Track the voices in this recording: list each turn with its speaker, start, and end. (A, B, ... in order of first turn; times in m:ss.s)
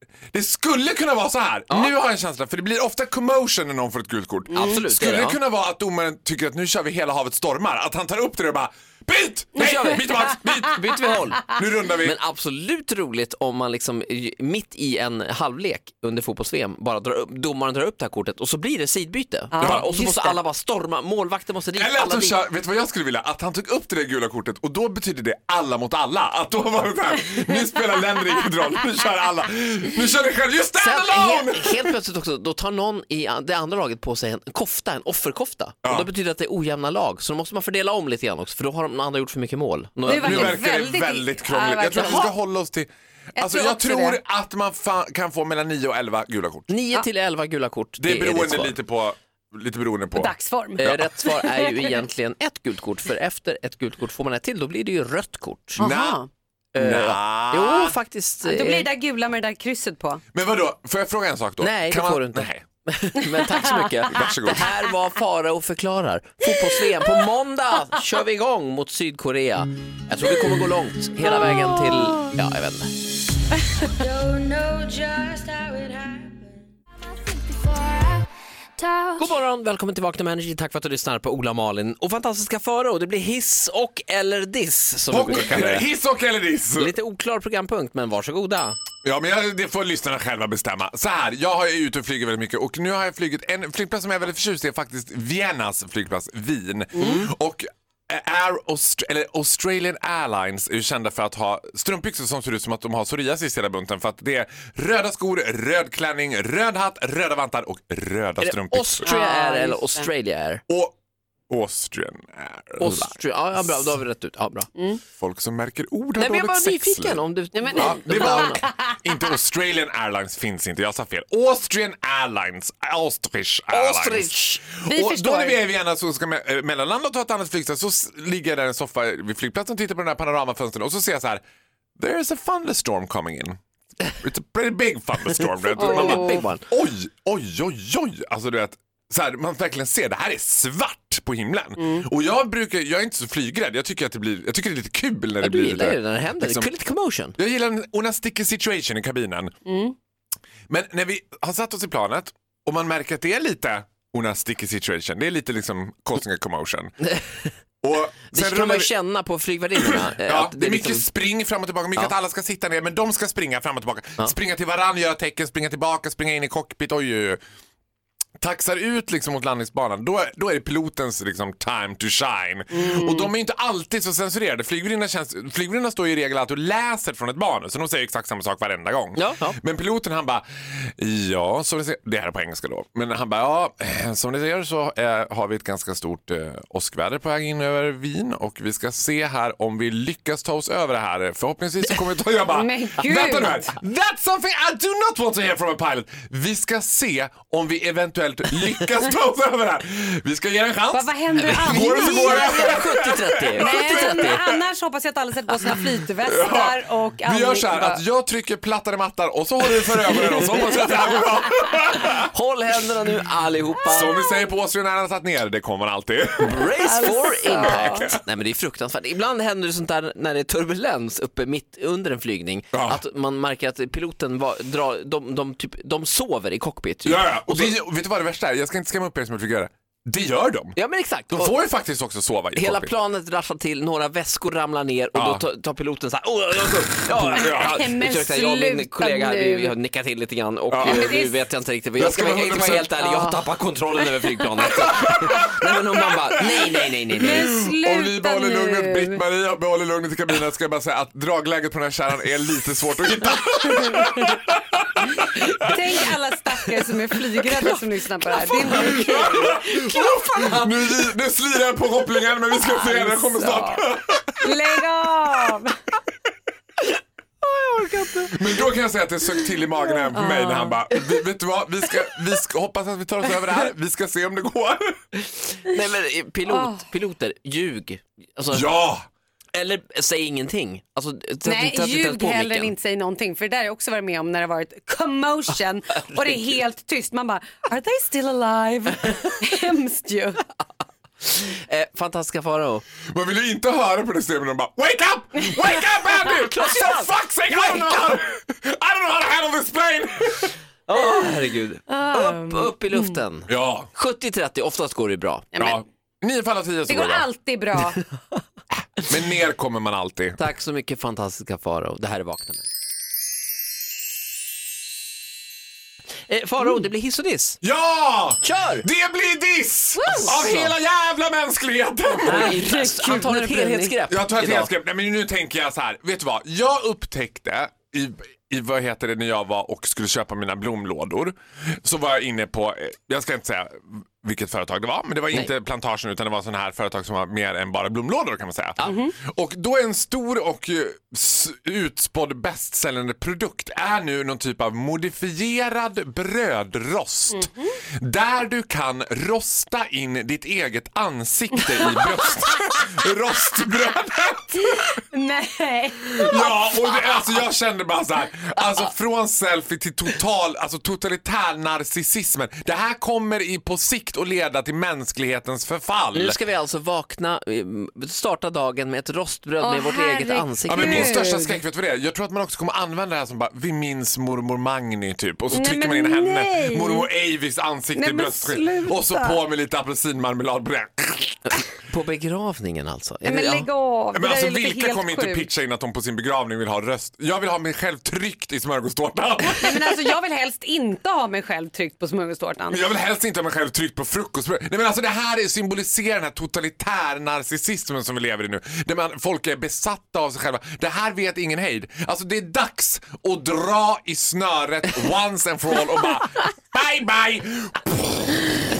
0:00.3-0:12.2 A
0:04.5-0:05.4 B
0:09.6-0:22.4 B
0:19.5-0:20.4 C
0:19.6-0:19.9 A
0:21.8-0:31.9 A
0:30.8-0:40.6 B
0:40.0-0:42.3 C
0:40.1-0:46.7 A
0:42.0-0:42.3 B
0:43.4-0:44.2 C
0:46.7-0:48.8 B
0:48.0-0:51.0 A
0:50.1-0:51.9 C
0:50.8-0:55.8 B
0:55.8-0:56.2 A
0:55.8-0:56.3 C
0:56.8-0:58.9 B
0:56.8-0:58.0 A
0:58.4-1:00.2 C
1:00.3-1:02.6 A
1:01.6-1:12.9 B
1:03.4-1:04.2 C
1:04.1-1:04.7 A
1:11.4-1:11.6 C
1:13.8-1:16.2 C
1:18.8-1:19.1 C
1:19.2-1:25.9 B
1:25.1-1:26.9 A
1:26.8-1:28.8 B
1:29.0-1:49.1 A
1:37.0-1:37.3 B
1:48.4-1:50.6 B
1:49.0-1:50.1 C
1:50.7-1:51.0 A
1:51.5-1:53.9 A
1:52.8-1:54.7 B
1:55.2-1:57.2 A
1:56.2-1:58.7 B
1:57.6-1:59.0 C
1:57.8-2:11.4 A
2:03.7-2:04.7 B
2:04.9-2:05.6 C
2:12.0-2:26.7 A
2:15.8-2:16.6 B
2:15.8-2:16.4 C
2:21.8-2:22.0 C
2:25.4-2:27.4 B
2:27.4-2:29.5 A
2:29.7-2:30.0 C
2:30.7-2:37.1 A
2:37.8-2:38.9 A
2:38.3-2:41.1 B
2:39.9-2:47.4 A
2:48.4-3:24.6 A
2:52.7-2:53.3 C
2:59.2-2:59.6 B
3:12.4-3:13.7 C
3:20.9-3:28.0 C
3:21.5-3:24.4 B
3:26.2-3:32.3 A
3:32.3-3:34.2 B
3:33.9-3:36.7 A
3:36.4-3:47.8 B
3:36.8-3:38.1 C
3:37.6-3:38.2 A
3:42.7-3:43.0 A
3:47.1-3:50.8 A
3:50.8-3:51.6 B
3:51.3-3:52.9 A
3:52.6-4:07.6 B
3:55.2-3:55.4 A
3:57.1-3:58.2 A
3:57.2-3:59.8 C
4:00.7-4:01.2 A
4:00.8-4:01.4 C
4:02.0-4:02.9 A
4:03.0-4:03.4 C
4:04.8-4:05.5 A
4:06.0-4:16.1 A
4:07.2-4:09.2 C
4:14.0-4:14.4 C
4:15.3-4:20.9 C
4:18.4-4:24.8 A
4:22.6-4:25.8 C
4:27.4-4:28.4 B
4:28.3-4:34.9 A
4:29.9-4:30.9 C
4:35.2-4:38.7 B
4:36.5-4:36.9 C
4:38.5-4:39.0 A
4:39.5-4:42.7 B
4:41.4-4:50.4 C
4:51.2-4:52.8 B
4:53.1-5:00.6 A
4:56.2-4:57.2 B
5:00.9-5:05.5 B
5:01.9-5:03.2 C
5:03.5-5:03.9 A
5:05.6-5:05.8 C
5:05.6-5:07.3 A
5:06.9-5:08.0 C
5:09.0-5:10.4 A
5:10.4-5:12.7 B
5:16.3-5:17.6 B
5:17.6-5:22.6 A
5:18.4-5:18.9 B
5:20.0-5:20.6 C
5:20.1-5:20.7 B
5:22.1-5:24.0 C
5:22.2-5:24.7 B
5:24.1-5:54.6 A
5:38.8-5:39.1 B
5:38.8-5:39.1 C
5:47.3-5:47.7 C
5:54.6-5:57.2 C
5:56.1-6:06.4 A
6:06.1-6:11.3 B
6:09.6-6:11.6 C
6:10.7-6:21.4 A
6:15.5-6:17.1 C
6:17.9-6:19.4 C
6:21.5-6:23.7 B
6:23.2-6:25.5 C
6:24.1-6:30.0 A
6:29.4-6:32.9 C
6:32.7-6:48.7 A